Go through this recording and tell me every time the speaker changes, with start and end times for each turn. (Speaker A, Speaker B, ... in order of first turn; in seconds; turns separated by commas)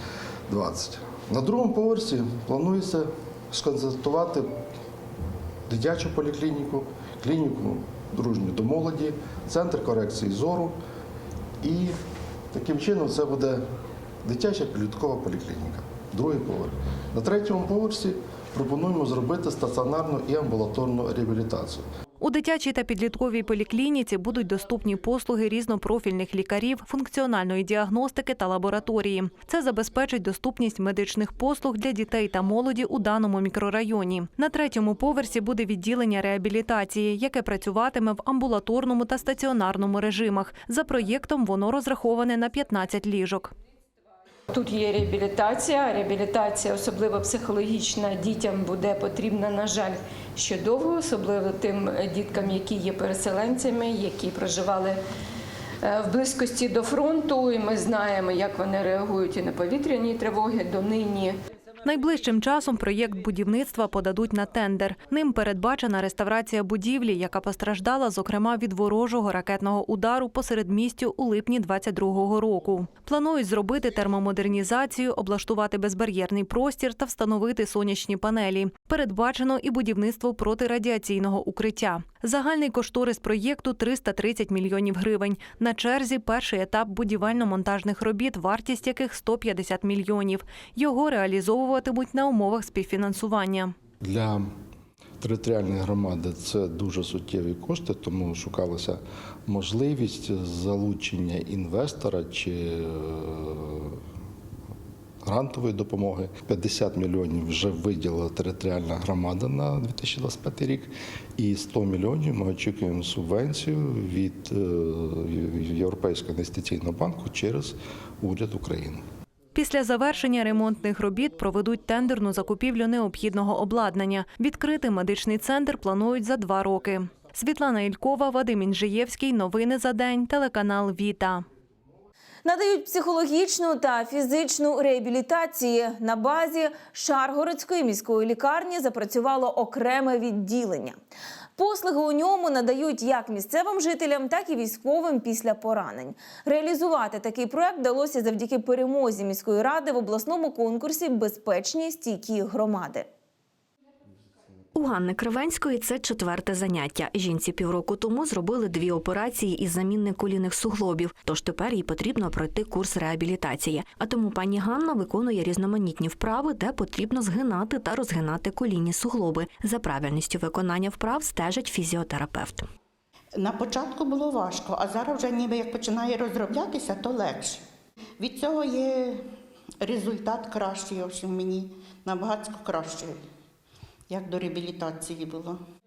Speaker A: 0.5-4.5, Speaker A: 5.7-10.8, Speaker A: 11.6-12.0, Speaker A: 12.5-13.6, Speaker A: 14.2-21.9, Speaker B: 22.2-43.5, Speaker C: 44.5-55.0, Speaker C: 55.8-61.4, Speaker B: 61.9-93.7, Speaker A: 94.0-94.5, Speaker A: 95.2-104.0, Speaker A: 105.2-119.0, Speaker B: 119.5-131.4, Speaker D: 132.4-141.0, Speaker D: 141.6-153.1, Speaker E: 154.7-172.7, Speaker F: 173.4-177.6, Speaker F: 178.2-179.3, Speaker F: 179.8-183.2, Speaker F: 184.1-185.6